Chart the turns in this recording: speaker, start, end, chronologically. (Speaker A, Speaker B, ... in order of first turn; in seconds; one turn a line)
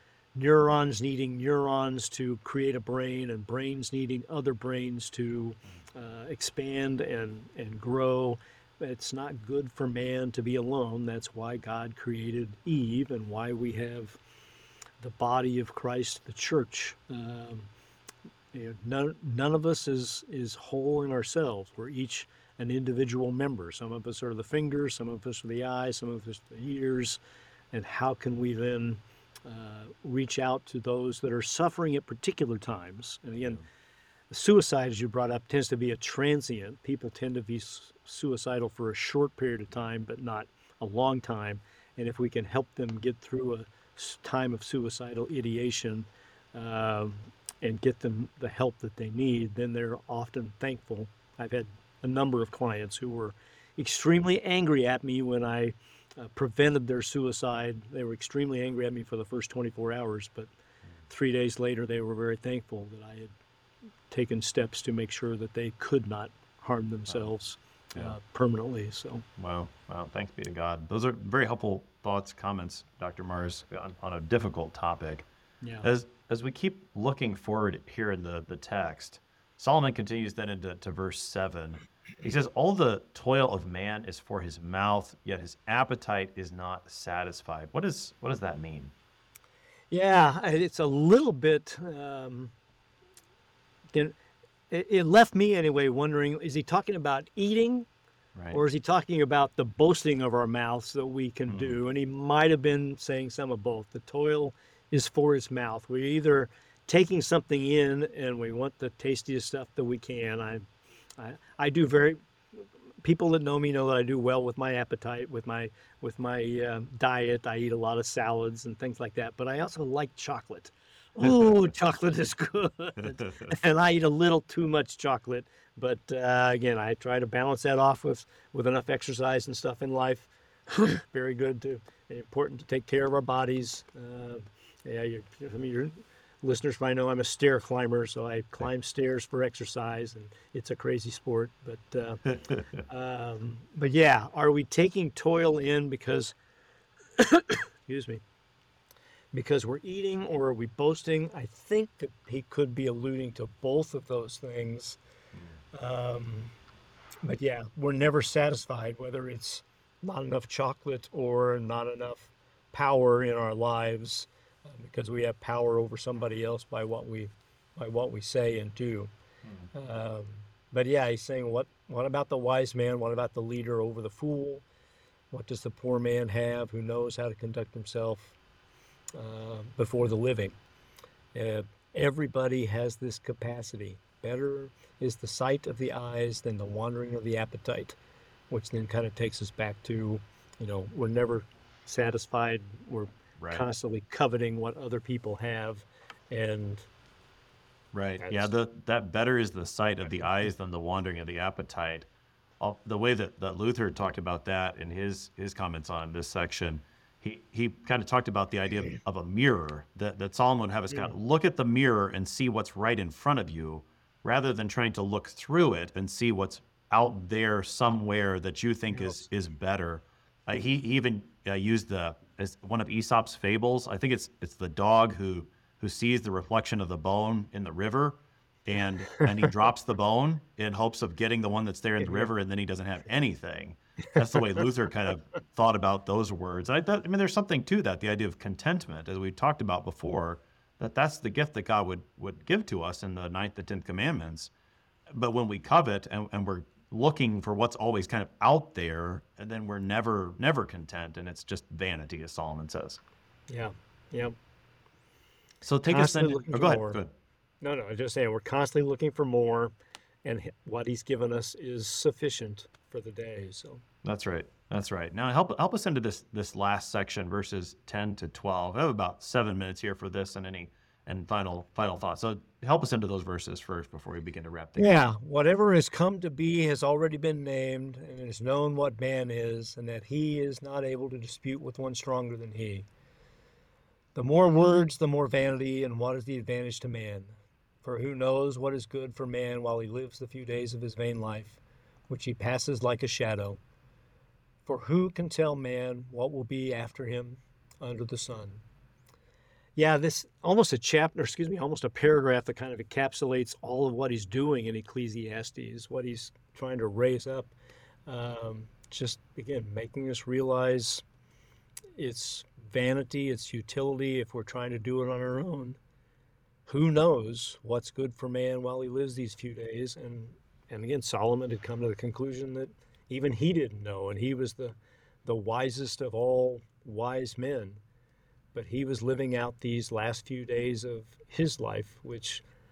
Speaker A: 0.3-14.2
Speaker A: 15.0-17.7
Speaker A: 18.5-27.2
Speaker A: 27.7-33.6
Speaker A: 34.3-60.5
Speaker A: 61.1-63.3
Speaker A: 64.1-69.3
Speaker B: 69.4-75.3
Speaker B: 75.8-88.9
Speaker A: 89.9-92.5
Speaker A: 94.7-97.9
Speaker B: 98.3-98.6
Speaker A: 98.5-110.7
Speaker B: 101.5-101.8
Speaker A: 111.2-142.2
Speaker B: 142.3-142.8
Speaker A: 142.9-146.3
Speaker A: 147.2-148.2
Speaker A: 149.3-155.0
Speaker A: 155.7-156.5
Speaker A: 157.2-169.1
Speaker A: 169.7-174.6
Speaker A: 175.3-178.3
Speaker A: 179.2-180.6
Speaker A: 181.3-188.0
Speaker A: 188.5-196.9
Speaker B: 193.4-193.7
Speaker B: 197.9-202.1
Speaker A: 198.2-198.5
Speaker B: 202.6-244.5
Speaker A: 218.9-219.2
Speaker A: 232.0-232.3
Speaker B: 245.1-253.0
Speaker A: 253.5-254.3
Speaker B: 255.6-257.1
Speaker A: 255.9-257.0
Speaker A: 257.6-259.7
Speaker A: 260.2-263.8
Speaker B: 264.0-274.9
Speaker A: 274.8-282.9
Speaker A: 284.1-293.6
Speaker A: 294.7-298.6
Speaker A: 299.8-307.5
Speaker A: 308.1-311.0
Speaker A: 312.0-315.8
Speaker A: 316.7-327.8
Speaker A: 328.5-332.4